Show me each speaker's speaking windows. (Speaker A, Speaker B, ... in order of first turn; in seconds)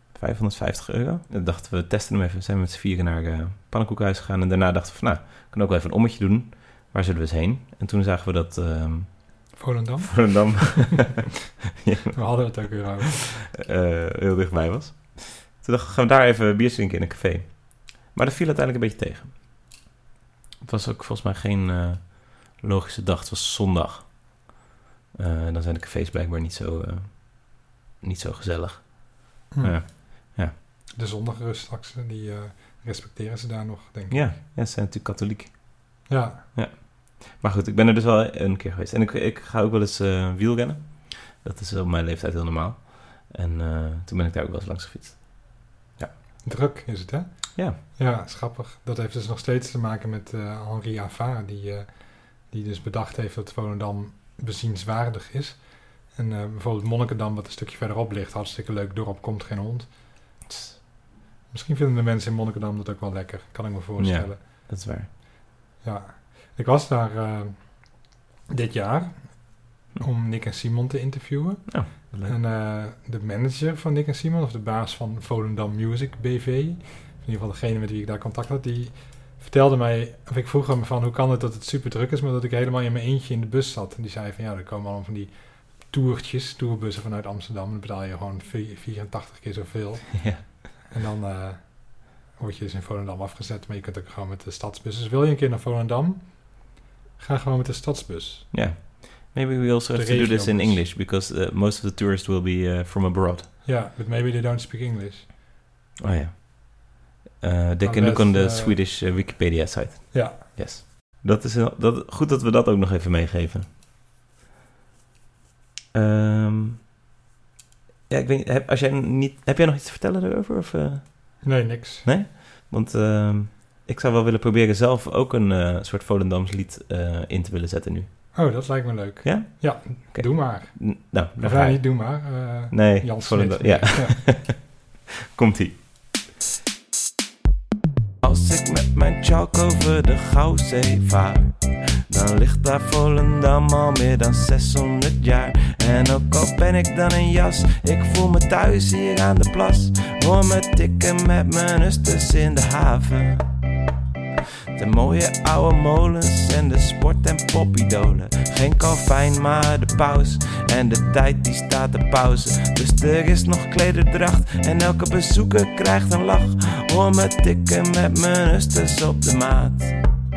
Speaker A: 0.1-19.3, 20.6-24.3, 25.1-30.5, 34.1-46.1, 60.5-60.8, 64.0-65.1, 71.7-72.4, 90.2-90.4, 98.5-103.5, 106.0-113.7, 115.9-116.8, 118.1-128.4, 129.2-134.8, 135.3-135.8
Speaker B: 9.6-10.9, 12.1-13.3, 29.5-30.4, 30.9-34.3, 36.1-36.5, 46.4-59.9, 61.5-64.4, 65.8-67.9, 68.5-98.5, 99.9-100.8, 103.6-105.3, 107.8-108.8, 110.1-110.4, 121.4-122.1, 128.3-134.5
Speaker C: 138.2-153.5, 154.8-169.9